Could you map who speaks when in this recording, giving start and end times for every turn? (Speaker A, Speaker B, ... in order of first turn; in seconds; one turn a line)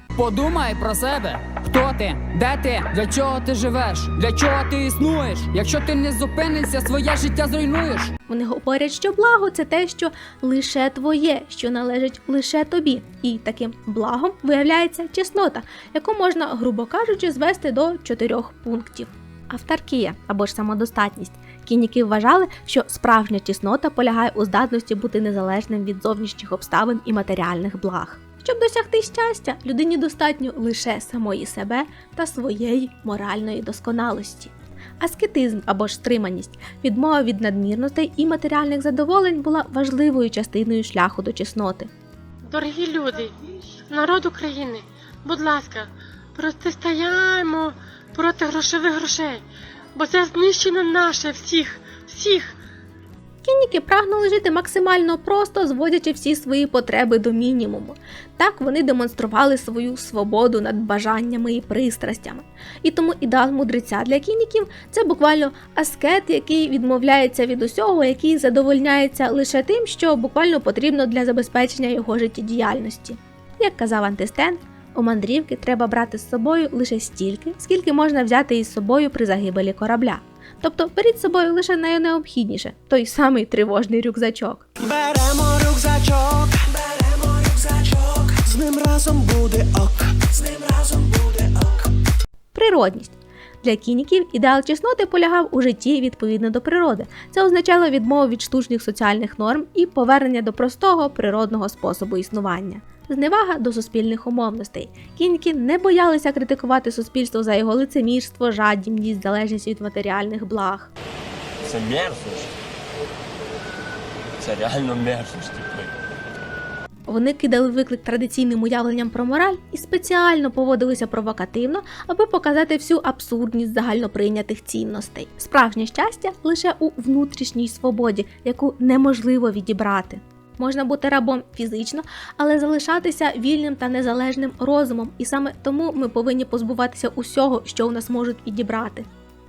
Speaker A: 0.2-8.1
Speaker B: 8.3-41.9
Speaker C: 42.5-43.3
Speaker C: 43.9-49.4
Speaker C: 50.0-52.5
Speaker B: 53.4-84.6
Speaker D: 84.8-91.9
Speaker B: 92.5-110.9
Speaker E: 111.6-112.5
Speaker E: 114.4-115.9
Speaker B: 117.1-139.1